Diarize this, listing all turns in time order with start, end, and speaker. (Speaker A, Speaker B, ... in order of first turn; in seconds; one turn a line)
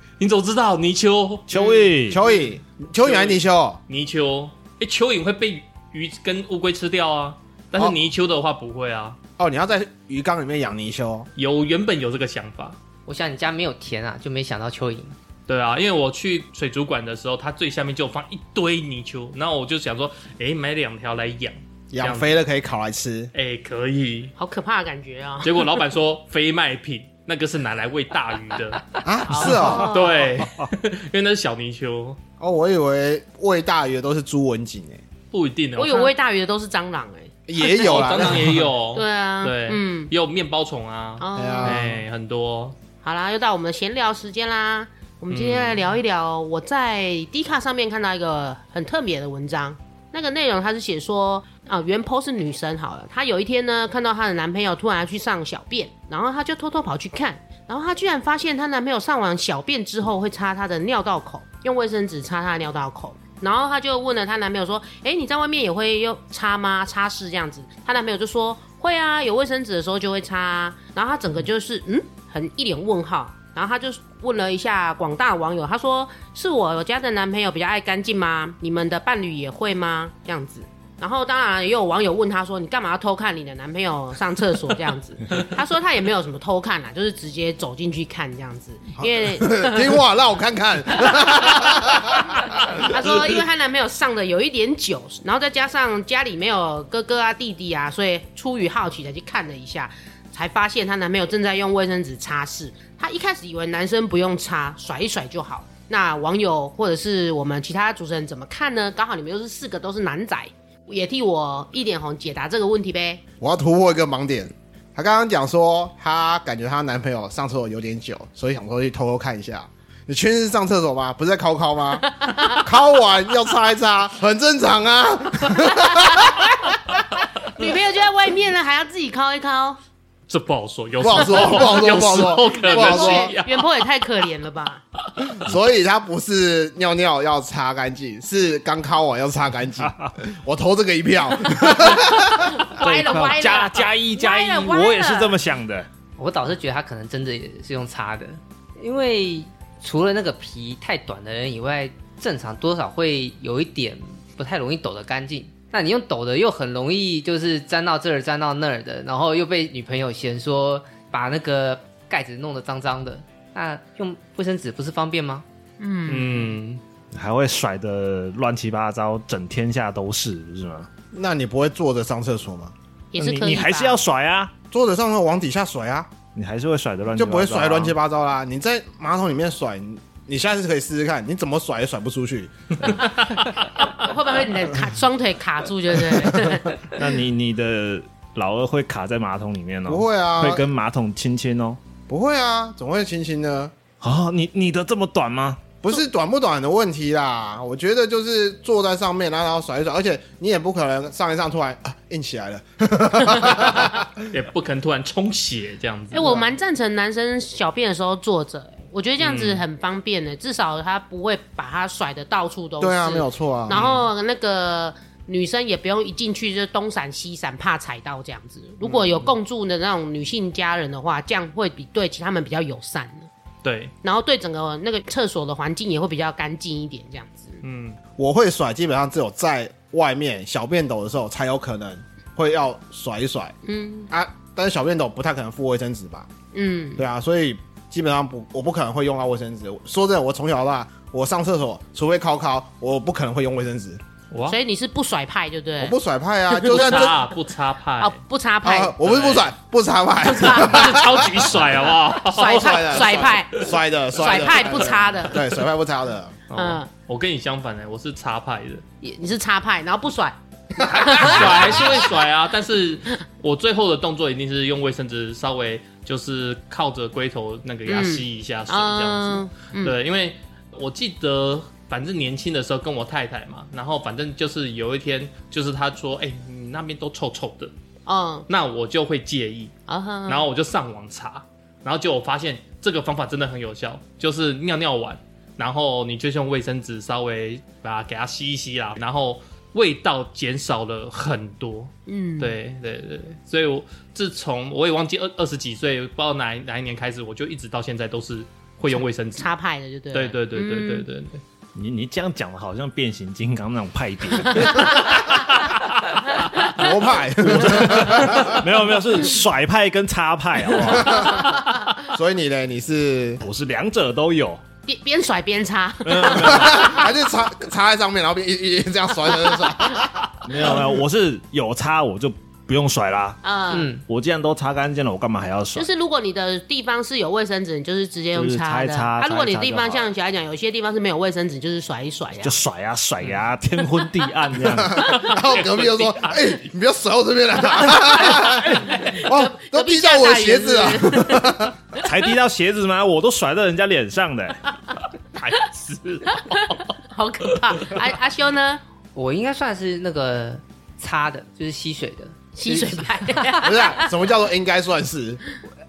Speaker A: 0.2-1.6
Speaker B: 1.5-2.2
Speaker C: 2.0-3.8
Speaker A: 2.2-9.2
Speaker C: 9.4-11.3
Speaker A: 11.3-12.8
Speaker D: 13.1-15.2
Speaker A: 15.5-22.4
Speaker C: 21.9-23.3
Speaker A: 23.3-24.3
Speaker E: 24.4-25.7
Speaker A: 25.4-32.2
Speaker C: 29.0-29.9
Speaker E: 29.3-30.4
Speaker C: 32.4-35.0
Speaker A: 35.3-36.1
Speaker E: 35.8-40.1
Speaker C: 37.5-38.7
Speaker A: 37.6-42.7
Speaker E: 41.2-42.0
Speaker C: 41.4-41.9
Speaker E: 43.0-90.0
Speaker A: 45.3-46.0
Speaker C: 89.0-93.3
Speaker E: 91.1-113.2
Speaker C: 113.4-126.5
Speaker E: 122.2-122.6
Speaker E: 125.6-126.4
Speaker E: 127.5-129.8
Speaker A: 130.3-133.7
Speaker C: 131.0-133.3
Speaker E: 131.2-134.8
Speaker C: 135.4-142.7
Speaker B: 139.8-140.2
Speaker E: 141.9-145.4
Speaker B: 142.8-145.9
Speaker D: 146.2-165.4
Speaker E: 165.8-166.5
Speaker A: 166.1-166.8
Speaker B: 167.1-170.9
Speaker C: 171.1-172.7
Speaker E: 173.1-174.0
Speaker B: 173.2-174.5
Speaker C: 174.7-176.1
Speaker B: 176.3-177.9
Speaker C: 177.2-182.9
Speaker A: 182.8-183.9
Speaker E: 183.7-187.0
Speaker B: 186.9-191.8
Speaker C: 189.9-190.6
Speaker C: 192.1-193.7
Speaker B: 194.0-195.8
Speaker C: 195.8-204.2
Speaker A: 204.2-206.5
Speaker E: 206.1-223.3
Speaker A: 209.2-209.6
Speaker C: 212.8-213.8
Speaker A: 213.7-214.1
Speaker A: 218.8-219.3
Speaker A: 223.6-223.9
Speaker E: 224.0-227.6
Speaker A: 227.6-228.0
Speaker C: 228.2-233.5
Speaker E: 233.6-234.1
Speaker C: 234.1-236.3
Speaker E: 236.5-237.0
Speaker C: 237.0-244.0
Speaker A: 244.3-244.6
Speaker E: 244.5-245.9
Speaker C: 245.8-247.2
Speaker A: 246.6-248.2
Speaker E: 246.6-247.1
Speaker E: 248.0-248.9
Speaker C: 248.6-251.4
Speaker A: 249.0-249.5
Speaker E: 250.2-250.8
Speaker A: 250.4-253.3
Speaker E: 252.3-255.5
Speaker C: 252.4-256.4
Speaker A: 256.5-258.8
Speaker E: 256.5-256.9
Speaker E: 259.0-262.1
Speaker A: 260.8-277.7
Speaker E: 267.9-269.9
Speaker E: 278.1-278.4
Speaker A: 278.5-279.7
Speaker E: 279.9-280.5
Speaker A: 280.3-299.5
Speaker E: 292.1-292.6
Speaker E: 298.9-301.1
Speaker A: 300.1-301.4
Speaker B: 301.7-305.0
Speaker E: 304.6-305.2
Speaker E: 306.4-306.9
Speaker C: 306.8-308.7
Speaker B: 307.9-311.4
Speaker C: 310.8-311.5
Speaker C: 312.0-313.4
Speaker B: 313.4-314.6
Speaker E: 314.9-317.1
Speaker B: 316.0-317.0
Speaker C: 316.4-320.2
Speaker B: 320.4-323.4
Speaker E: 323.4-323.9
Speaker D: 323.7-324.0
Speaker B: 324.0-325.9
Speaker E: 325.8-332.6
Speaker B: 328.3-330.1
Speaker B: 332.4-335.1
Speaker C: 334.7-341.7
Speaker A: 335.0-336.4
Speaker E: 337.9-342.0
Speaker B: 342.0-344.6
Speaker A: 345.3-346.8
Speaker E: 346.3-348.8
Speaker A: 347.7-348.0
Speaker D: 349.1-353.6
Speaker E: 352.6-354.1
Speaker C: 353.6-355.4